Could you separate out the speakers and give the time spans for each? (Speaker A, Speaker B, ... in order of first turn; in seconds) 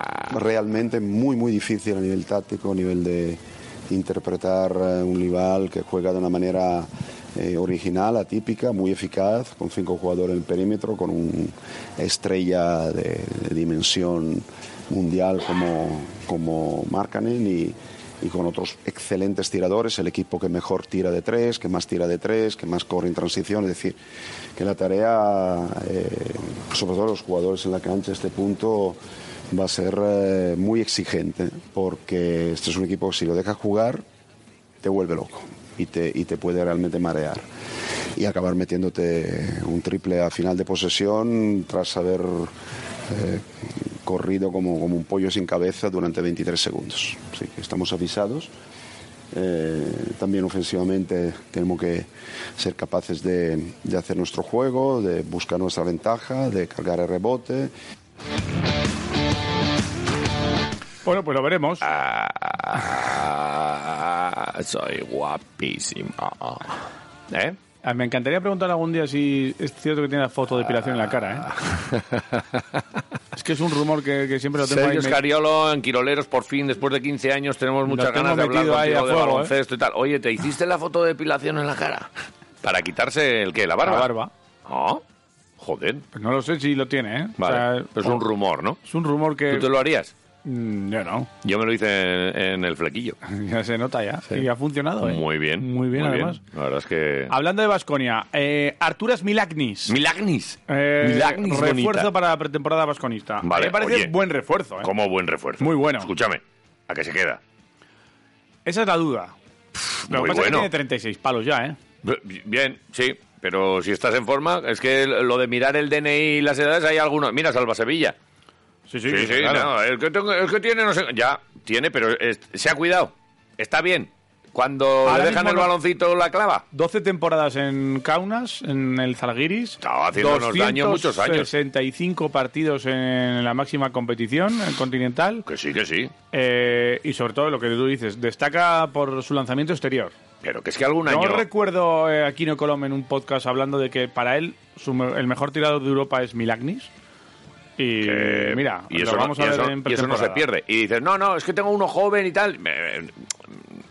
Speaker A: 0.3-24.0, 24.6-29.0, 29.5-34.0, 34.8-37.4, 38.2-42.5, 43.1-48.5, 49.3-57.7
Speaker B: 61.0-61.9, 67.8-71.5, 73.3-75.2, 77.9-79.5, 83.8-84.3, 86.1-88.2, 88.8-89.7, 90.4-91.3, 93.3-96.4, 97.3-100.0, 100.7-104.9, 105.6-106.1, 108.7-109.3, 110.1-111.8, 118.9-119.7, 125.0-125.7, 126.7-135.4, 136.3-140.1, 141.1-146.9, 147.8-150.5
Speaker C: 61.9-67.6, 71.7-72.2, 74.6-82.1, 82.6-84.1, 84.7-85.0, 85.6-86.0, 87.4-88.8, 89.5-90.1, 91.4-93.2, 95.0-97.3, 99.9-102.1, 103.4-104.1, 104.8-107.4, 109.8-110.7, 112.0-118.2, 119.1-126.6, 129.8-131.5, 135.5-136.1, 140.4-141.4, 148.0-153.2